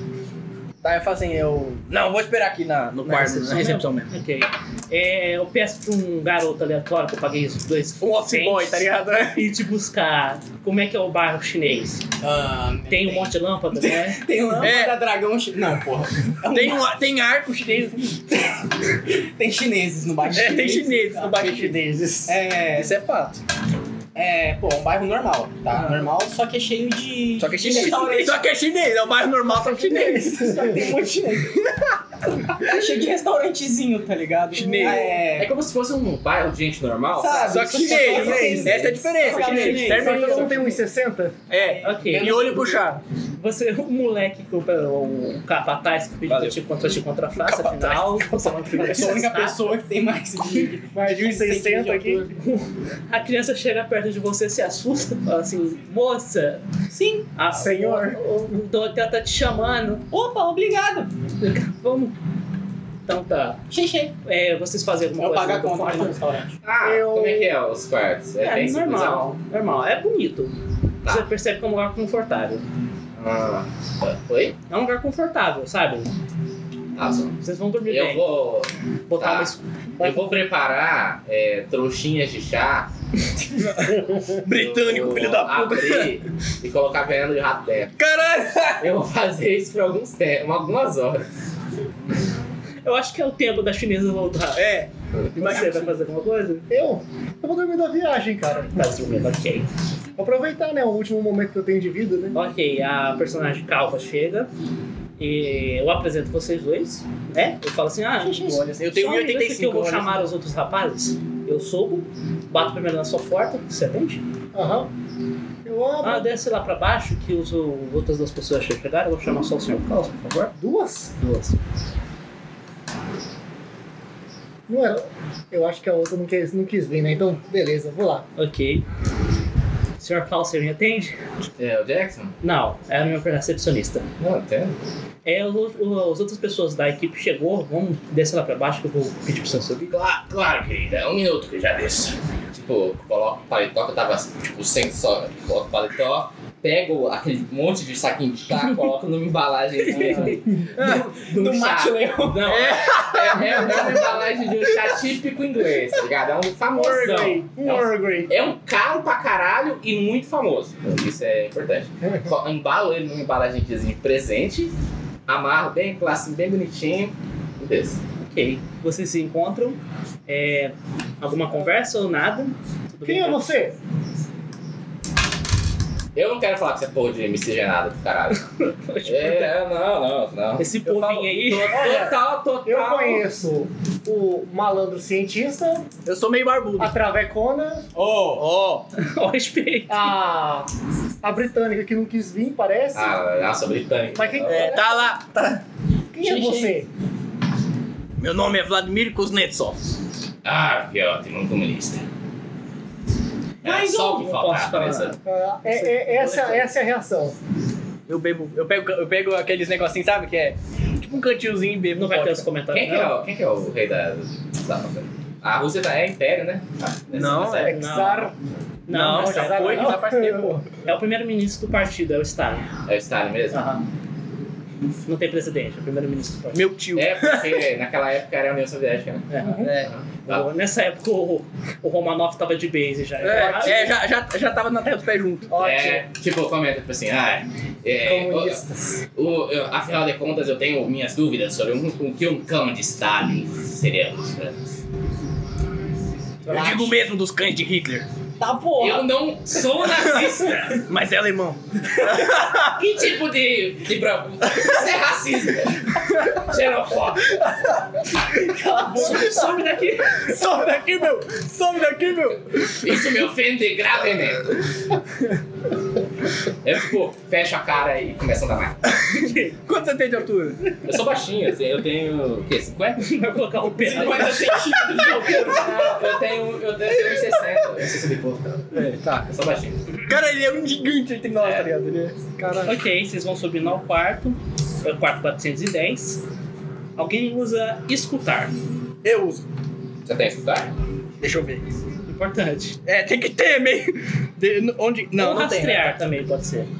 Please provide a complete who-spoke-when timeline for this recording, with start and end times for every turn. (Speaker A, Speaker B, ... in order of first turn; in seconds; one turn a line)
Speaker A: 0.8-4.1
Speaker B: 3.0-12.0
Speaker A: 8.0-9.4
Speaker C: 12.2-16.9
Speaker B: 12.9-14.7
Speaker A: 14.6-15.0
Speaker A: 16.4-18.1
Speaker C: 19.0-21.2
Speaker A: 20.3-21.8
Speaker D: 21.1-22.4
Speaker C: 22.3-22.9
Speaker A: 22.7-23.4
Speaker C: 24.1-28.4
Speaker A: 27.4-30.5
Speaker D: 29.6-30.6
Speaker C: 29.8-31.7
Speaker C: 32.4-35.5
Speaker A: 34.5-35.2
Speaker E: 35.1-37.7
Speaker C: 37.1-40.8
Speaker A: 37.5-40.5
Speaker B: 37.7-40.7
Speaker D: 37.8-38.9
Speaker D: 39.5-41.5
Speaker A: 41.5-43.0
Speaker C: 41.5-42.8
Speaker B: 41.8-42.8
Speaker B: 43.4-49.7
Speaker A: 46.3-46.5
Speaker A: 47.4-49.2
Speaker C: 48.8-52.3
Speaker D: 50.9-52.3
Speaker B: 52.4-56.6
Speaker C: 56.9-57.3
Speaker B: 57.3-60.0
Speaker D: 57.5-58.2
Speaker C: 60.1-61.1
Speaker B: 61.4-62.1
Speaker B: 63.0-63.6
Speaker C: 63.7-64.1
Speaker B: 64.2-66.2
Speaker C: 65.2-66.6
Speaker E: 66.6-69.2
Speaker D: 66.8-67.5
Speaker B: 68.4-72.6
Speaker E: 73.2-74.5
Speaker B: 74.7-76.1
Speaker E: 77.0-82.9
Speaker B: 77.4-78.2
Speaker B: 79.1-79.6
Speaker A: 83.6-86.2
Speaker E: 84.5-88.0
Speaker A: 88.0-88.8
Speaker E: 88.8-91.2
Speaker B: 92.8-94.7
Speaker A: 94.5-95.9
Speaker B: 95.3-96.7
Speaker D: 96.7-98.8
Speaker B: 98.8-99.7
Speaker D: 100.2-102.4
Speaker B: 102.3-104.5
Speaker B: 105.2-114.2
Speaker C: 108.2-108.7
Speaker A: 108.7-110.2
Speaker D: 114.5-114.9
Speaker D: 115.6-116.3
Speaker B: 116.0-120.5
Speaker D: 120.6-121.2
Speaker B: 121.2-121.6
Speaker D: 124.7-128.2
Speaker B: 128.4-128.8
Speaker B: 130.0-131.2
Speaker E: 131.6-132.3
Speaker B: 132.4-134.1
Speaker E: 134.2-134.7
Speaker B: 135.2-139.9
Speaker E: 139.9-164.7
Speaker B: 149.9-150.4
Speaker D: 149.9-150.6
Speaker A: 150.8-151.0
Speaker C: 151.1-152.6
Speaker A: 152.4-154.2
Speaker D: 156.7-158.3
Speaker E: 165.3-168.0
Speaker B: 168.2-173.6
Speaker D: 173.0-173.8
Speaker E: 176.1-178.5
Speaker B: 178.6-179.5
Speaker E: 179.0-180.7
Speaker B: 180.6-181.9
Speaker A: 180.8-181.8
Speaker E: 181.4-183.2
Speaker D: 181.7-185.9
Speaker A: 186.0-186.9
Speaker D: 186.8-187.8
Speaker A: 187.9-188.9
Speaker B: 188.9-190.1
Speaker D: 189.9-190.7
Speaker D: 191.2-193.2
Speaker E: 192.9-194.8
Speaker D: 194.1-195.1
Speaker A: 194.4-195.6
Speaker D: 196.1-196.9
Speaker C: 196.2-196.7
Speaker A: 198.2-199.8
Speaker E: 200.4-202.0
Speaker E: 203.6-205.2
Speaker C: 203.6-204.3
Speaker B: 204.2-206.7
Speaker D: 205.2-207.4
Speaker A: 208.1-212.5
Speaker B: 211.9-213.2
Speaker E: 212.7-217.7
Speaker A: 217.1-217.7
Speaker D: 217.4-218.3
Speaker B: 217.7-218.3
Speaker B: 218.9-220.0
Speaker A: 218.9-220.7
Speaker D: 218.9-220.6
Speaker B: 220.8-222.7
Speaker E: 222.8-223.6
Speaker B: 223.5-223.8
Speaker B: 225.0-226.6
Speaker A: 226.5-227.6
Speaker E: 226.9-230.5
Speaker B: 229.3-229.7
Speaker A: 229.6-229.9
Speaker B: 230.2-233.9
Speaker A: 233.2-235.6
Speaker D: 235.5-236.0
Speaker E: 235.5-238.6
Speaker D: 238.0-239.0
Speaker E: 239.2-244.7
Speaker B: 246.4-246.9
Speaker A: 246.5-248.1
Speaker C: 248.4-249.1
Speaker E: 248.8-250.8
Speaker A: 250.1-252.7
Speaker E: 252.6-257.7
Speaker B: 258.3-260.4
Speaker C: 258.8-259.1
Speaker A: 260.1-263.0
Speaker E: 262.7-264.6
Speaker E: 266.6-268.8
Speaker A: 268.9-270.8
Speaker B: 269.1-269.6
Speaker E: 270.8-273.2
Speaker B: 273.0-274.4
Speaker C: 273.8-275.9
Speaker E: 273.8-278.8
Speaker A: 278.7-279.3
Speaker E: 279.3-279.8
Speaker A: 280.1-282.6
Speaker E: 281.4-281.7
Speaker D: 282.4-282.8
Speaker B: 282.6-286.2
Speaker B: 287.0-288.5
Speaker A: 289.0-289.4
Speaker E: 290.1-290.7
Speaker A: 291.2-291.6
Speaker B: 292.1-292.8
Speaker A: 292.8-295.9
Speaker B: 295.1-296.7